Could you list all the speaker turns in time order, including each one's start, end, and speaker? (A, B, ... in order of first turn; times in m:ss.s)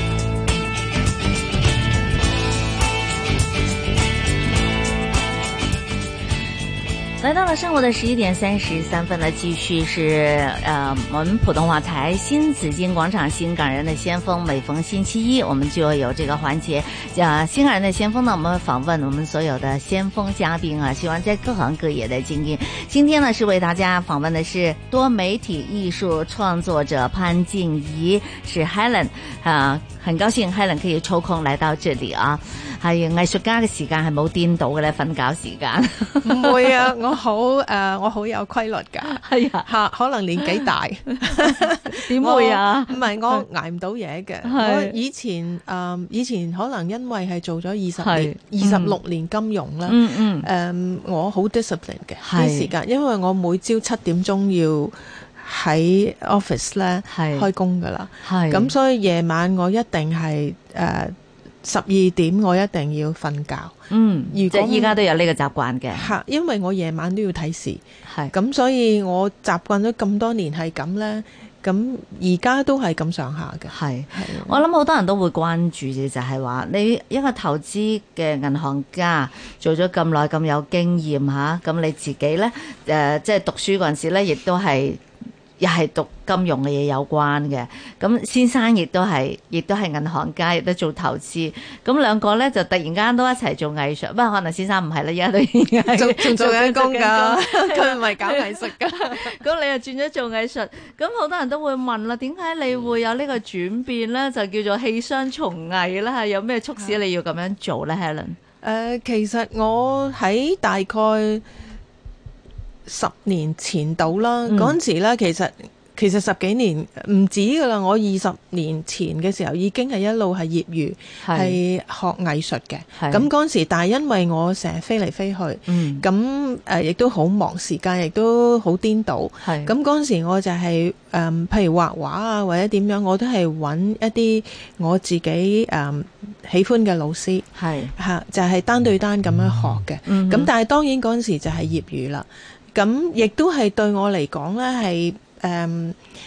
0:07.2-0:36.7 A
0:36.2-1:03.8 B
0:39.1-0:39.7 A
0:40.4-0:43.4 A
0:44.4-0:45.0 A
0:48.0-0:49.0 A
0:49.9-0:50.5 A
0:52.2-0:52.7 A
0:57.1-0:57.5 A
0:58.2-0:58.7 A
1:03.9-1:06.1 A
1:04.3-1:05.0 B
1:05.9-1:14.6 B
1:08.1-1:08.3 A
1:13.7-1:25.0 A
1:25.6-1:48.4 A
1:35.9-1:39.4 B
1:48.6-1:51.4 B
1:52.9-2:26.0 B
1:54.5-1:54.8 A
2:01.2-2:01.6 A
2:03.0-2:03.3 A
2:05.7-2:06.1 A
2:09.4-2:09.7 A
2:17.6-2:17.9 A
2:20.1-2:20.5 A